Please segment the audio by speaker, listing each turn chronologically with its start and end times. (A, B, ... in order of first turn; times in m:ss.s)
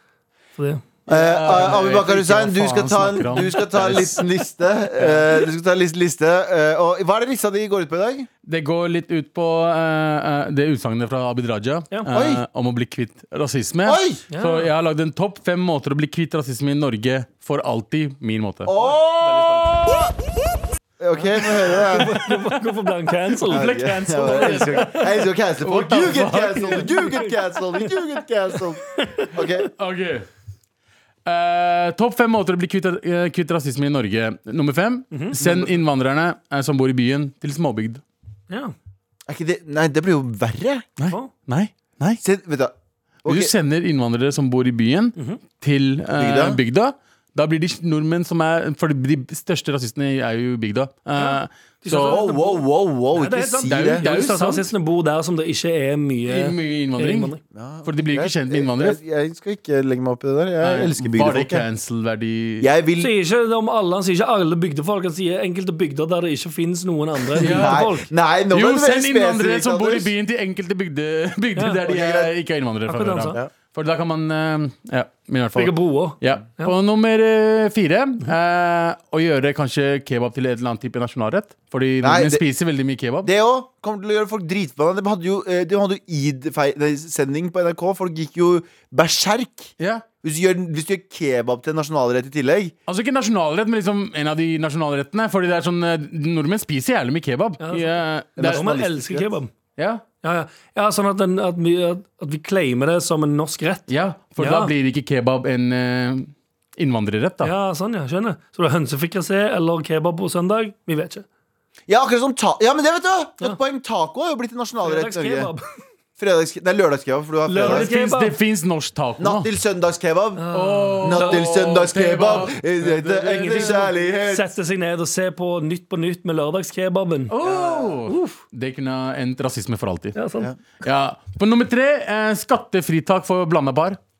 0:00.6-0:00.8 A
0:01.1-0:04.2 B
0:01.1-0:08.3 C
0:08.4-0:18.7 B
0:12.1-0:12.4 C
0:13.8-0:14.2 C
0:14.3-0:14.7 A
0:18.6-0:20.1 C
0:18.8-0:19.9 A
0:21.0-0:22.2 C
0:21.2-0:25.1 A
0:23.4-0:25.1 B
0:23.5-0:29.7 C
0:25.6-0:27.1 B
0:26.8-0:27.9 A
0:29.8-0:30.3 B
0:31.2-0:38.0 B
0:35.1-0:35.4 A
0:39.3-0:40.9 C
0:41.0-0:42.2 B
0:42.2-0:43.5 C
0:43.2-0:52.2 B
0:45.2-0:45.4 A
0:46.2-0:46.6 C
0:51.2-0:52.6 A
0:52.0-0:54.0 C
0:53.1-0:57.4 A
0:53.7-0:54.6 B
0:56.2-0:57.3 B
0:57.5-1:01.6 C
0:57.8-0:59.0 B
1:00.6-1:02.7 B
1:02.6-1:03.1 C
1:03.0-1:08.1 A
1:07.4-1:07.9 B
1:07.4-1:10.1 C
1:08.5-1:23.3 B
1:11.8-1:12.3 C
1:12.9-1:13.4 A
1:15.5-1:16.7 A
1:22.0-1:22.4 C
1:23.2-1:32.7 C
1:29.8-1:30.0 B
1:32.9-1:38.6 B
1:37.6-1:39.5 A
1:38.4-1:39.3 C
1:39.8-1:40.0 B
1:40.2-1:43.9 A
1:43.9-1:47.5 B
1:44.4-1:44.7 A
1:47.4-1:51.2 A
1:51.9-1:55.5 C
1:54.8-1:55.6 A
1:56.2-1:57.9 C
1:57.5-1:59.5 B
1:57.5-1:58.4 A
1:59.2-2:04.5 C
2:00.4-2:01.5 A
2:00.5-2:03.7 B
2:03.1-2:07.3 A
2:07.3-2:10.2 B
2:07.4-2:08.0 C
2:08.1-2:08.4 A
2:10.1-2:10.5 A
2:10.8-2:14.0 B